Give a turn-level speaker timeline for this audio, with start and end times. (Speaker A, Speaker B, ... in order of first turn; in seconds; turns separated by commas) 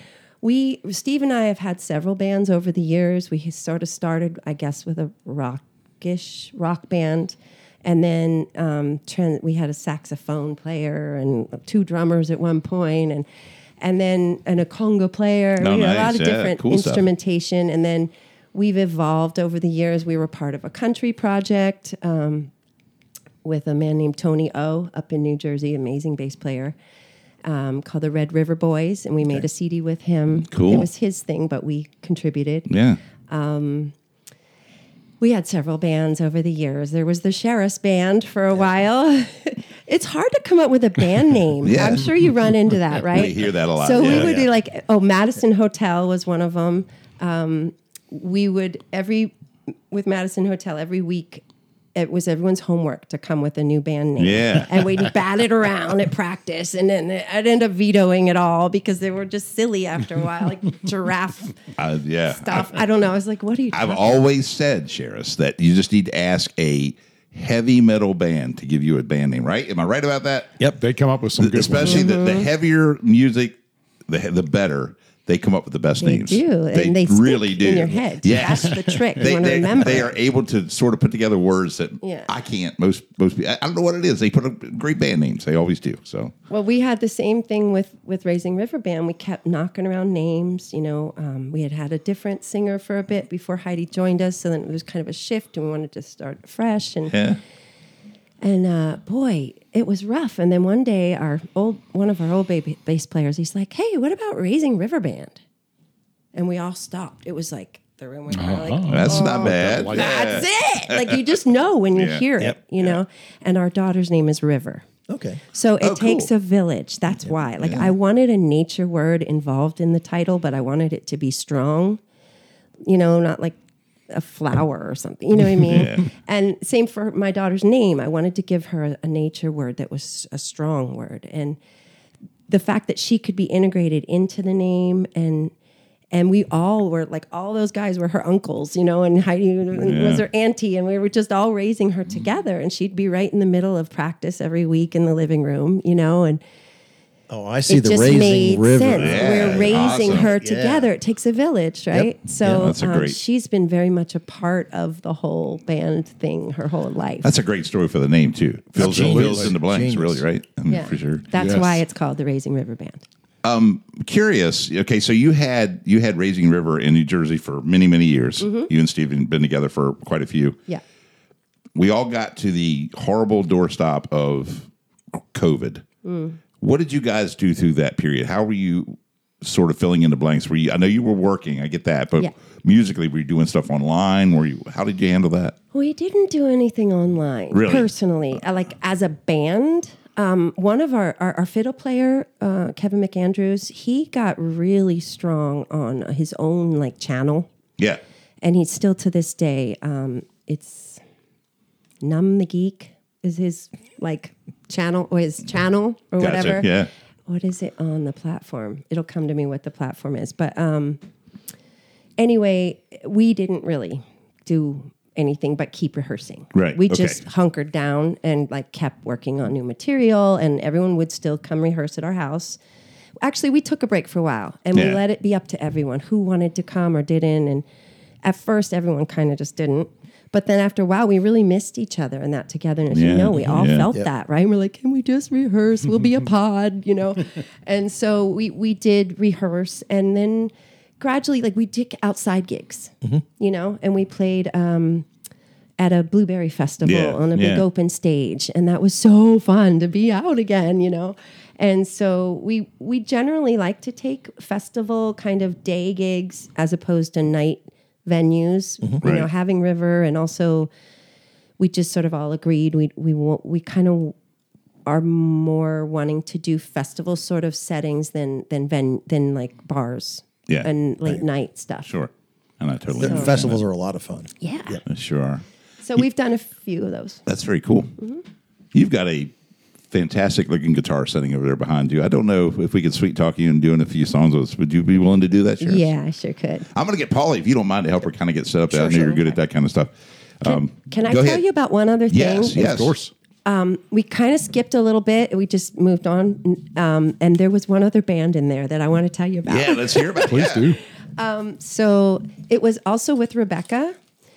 Speaker A: 0.4-13.2, Speaker A: 13.8-22.5, Speaker B: 15.6-17.0, Speaker A: 23.4-26.8, Speaker A: 27.4-32.7, Speaker B: 30.5-30.9, Speaker B: 32.7-33.0, Speaker A: 33.3-33.9, Speaker A: 35.2-51.4, Speaker B: 41.6-42.2, Speaker B: 43.0-44.4, Speaker C: 44.0-44.5, Speaker A: 51.9-61.7, Speaker B: 54.2-54.8, Speaker B: 61.8-62.8, Speaker A: 62.3-64.3, Speaker B: 63.7-70.6, Speaker D: 70.8-72.2, Speaker B: 71.4-86.3, Speaker A: 71.8-72.5, Speaker A: 76.0-80.1, Speaker A: 82.0-82.3, Speaker A: 86.5-97.2, Speaker B: 97.1-97.4, Speaker A: 98.4-105.4, Speaker A: 106.3-114.8, Speaker D: 108.3-110.5, Speaker B: 108.9-111.0, Speaker B: 111.9-112.2, Speaker C: 115.1-115.4, Speaker A: 115.5-122.0, Speaker B: 115.8-116.3, Speaker B: 117.6-117.9, Speaker A: 122.8-123.6, Speaker A: 124.1-131.6, Speaker B: 125.6-126.1, Speaker A: 132.5-135.5, Speaker A: 136.1-146.4, Speaker B: 139.8-140.2, Speaker C: 147.3-150.9, Speaker A: 147.7-157.3, Speaker B: 149.0-150.3, Speaker B: 151.9-153.2, Speaker B: 157.2-161.2, Speaker C: 158.8-160.2, Speaker D: 158.8-159.5, Speaker A: 160.7-163.0, Speaker D: 161.3-161.8, Speaker B: 163.4-170.6, Speaker A: 168.4-168.7, Speaker B: 171.7-175.8, Speaker A: 176.0-176.4, Speaker B: 176.6-185.6, Speaker A: 185.7-197.5, Speaker B: 187.5-187.9, Speaker A: 198.4-201.0, Speaker A: 202.0-211.0, Speaker B: 206.2-206.9, Speaker A: 212.2-222.6, Speaker B: 216.5-217.2, Speaker A: 223.2-227.6, Speaker B: 224.7-225.0, Speaker A: 228.2-245.1, Speaker B: 232.9-233.9, Speaker A: 245.8-260.7, Speaker B: 246.8-247.6, Speaker B: 259.0-259.3, Speaker A: 261.6-264.1, Speaker A: 264.9-271.9, Speaker B: 271.8-273.6, Speaker C: 273.0-274.8, Speaker A: 273.1-273.3, Speaker A: 274.4-274.8, Speaker B: 274.9-275.4, Speaker A: 275.8-277.2, Speaker B: 277.2-277.9, Speaker A: 278.0-278.2, Speaker B: 278.7-279.3, Speaker B: 279.9-285.9, Speaker A: 285.6-286.7, Speaker B: 286.7-291.4, Speaker A: 288.7-289.4, Speaker A: 290.4-292.8, Speaker B: 292.1-292.9, Speaker D: 292.5-293.1, Speaker A: 293.4-300.5, Speaker B: 299.5-300.7, Speaker D: 300.3-300.8, Speaker A: 301.2-303.9